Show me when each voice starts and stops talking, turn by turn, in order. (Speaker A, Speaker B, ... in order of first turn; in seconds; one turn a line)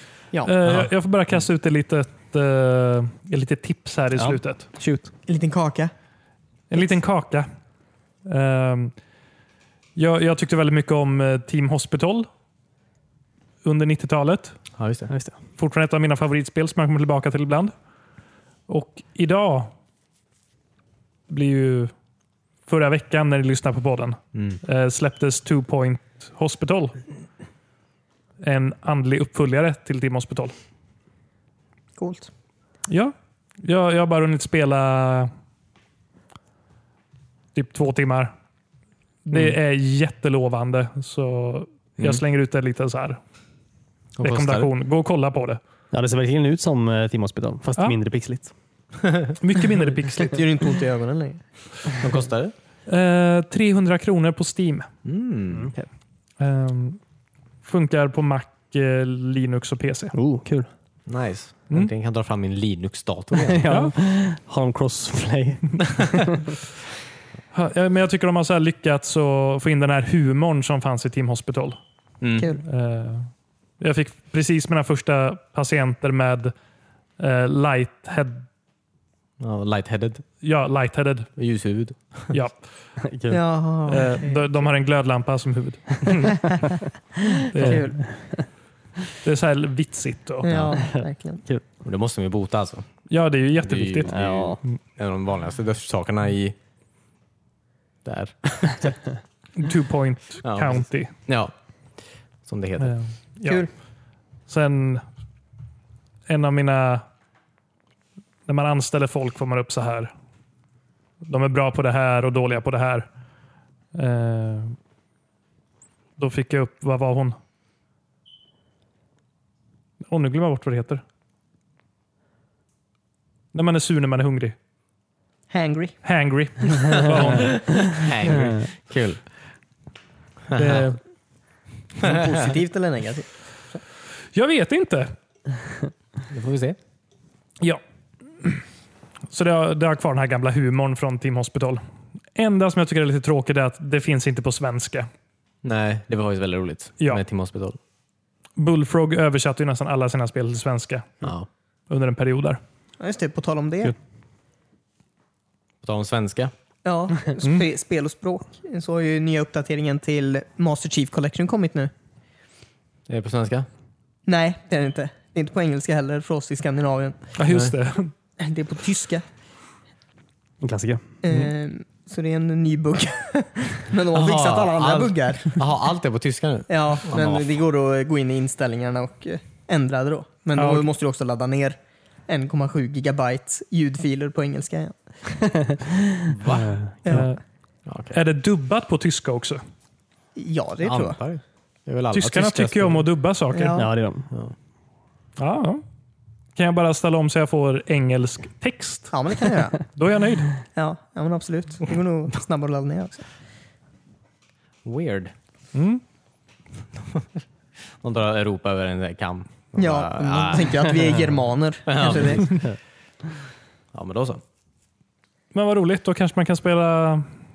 Speaker A: 0.4-4.7
Speaker B: 0.6-0.9
Speaker C: 4.1-5.1
Speaker D: 5.3-5.9
Speaker A: 6.7-7.5
Speaker A: 8.2-8.9
Speaker A: 9.9-12.3
Speaker A: 13.6-14.6
Speaker B: 14.8-15.1
Speaker C: 15.1-15.4
Speaker A: 15.6-17.7
Speaker A: 18.7-19.7
Speaker A: 21.3-21.9
Speaker A: 22.7-27.0
Speaker B: 24.3-24.6
Speaker A: 28.4-30.5
Speaker D: 32.0-32.3
Speaker A: 32.9-35.3
Speaker A: 37.5-38.3
Speaker A: 39.2-43.2
Speaker B: 44.2-44.7
Speaker A: 44.2-45.6
Speaker C: 45.9-48.5
Speaker B: 49.0-49.3
Speaker A: 49.4-50.4
Speaker D: 50.2-51.4
Speaker B: 52.0-52.5
Speaker A: 52.9-54.9
Speaker B: 55.0-55.7
Speaker C: 55.5-55.9
Speaker A: 56.4-57.0
Speaker A: 57.6-60.1
Speaker C: 60.1-60.7
Speaker B: 61.1-63.7
Speaker C: 63.4-66.5
Speaker A: 63.7-63.9
Speaker A: 67.5-71.8
Speaker B: 72.2-72.5
Speaker A: 72.6-76.5
Speaker A: 77.2-78.4
Speaker B: 79.4-80.2
Speaker A: 80.4-81.3
Speaker B: 81.3-82.3
Speaker A: 82.3-82.6
Speaker C: 83.0-83.4
Speaker D: 83.3-84.6
Speaker A: 83.9-86.5
Speaker A: 87.5-88.0
Speaker D: 87.5-88.0
Speaker C: 87.6-88.5
Speaker A: 89.2-90.7
Speaker D: 90.4-91.4
Speaker C: 90.8-91.6
Speaker B: 91.8-92.9
Speaker A: 93.1-94.1
Speaker B: 93.6-96.5
Speaker C: 94.0-94.6
Speaker B: 98.0-99.0
Speaker A: 99.5-101.1
Speaker B: 100.4-101.5
Speaker B: 102.4-103.0
Speaker A: 102.8-103.7
Speaker A: 104.5-105.0
Speaker A: 106.3-107.0
Speaker A: 108.5-110.1
Speaker A: 111.2-113.1
Speaker A: 113.9-114.8
Speaker A: 116.2-117.3
Speaker A: 120.1-121.0
Speaker A: 123.5-124.5
Speaker D: 125.5-126.0
Speaker A: 126.0-127.9
Speaker B: 126.9-129.2
Speaker C: 128.3-128.6
Speaker B: 130.5-130.9
Speaker A: 130.5-131.0
Speaker B: 132.0-132.3
Speaker D: 132.0-133.8
Speaker A: 134.3-135.1
Speaker B: 136.3-136.8
Speaker A: 139.3-141.8
Speaker A: 142.3-145.1
Speaker B: 145.6-147.8
Speaker A: 148.6-151.2
Speaker B: 151.2-151.5
Speaker A: 151.9-152.6
Speaker D: 153.0-153.9
Speaker B: 155.8-156.5
Speaker D: 156.8-161.9
Speaker B: 163.1-163.7
Speaker D: 164.2-167.2
Speaker A: 167.3-168.1
Speaker B: 167.5-167.7
Speaker D: 168.4-169.2
Speaker C: 170.6-171.1
Speaker D: 171.2-175.6
Speaker B: 174.1-177.5
Speaker D: 176.7-184.9
Speaker A: 180.6-180.9
Speaker B: 186.4-186.7
Speaker C: 186.4-187.2
Speaker D: 187.0-187.3
Speaker A: 187.1-187.4
Speaker B: 187.9-188.2
Speaker A: 188.1-189.6
Speaker D: 190.3-191.2
Speaker B: 190.8-193.0
Speaker A: 192.1-193.9
Speaker D: 193.5-193.8
Speaker C: 193.7-194.3
Speaker B: 194.3-194.5
Speaker A: 195.4-195.8
Speaker A: 196.6-200.5
Speaker D: 199.1-199.8
Speaker D: 200.8-203.2
Speaker B: 204.8-205.3
Speaker A: 205.7-206.0
Speaker B: 208.0-211.1
Speaker D: 209.8-212.6
Speaker B: 211.8-212.6
Speaker B: 213.9-214.4
Speaker A: 215.5-217.3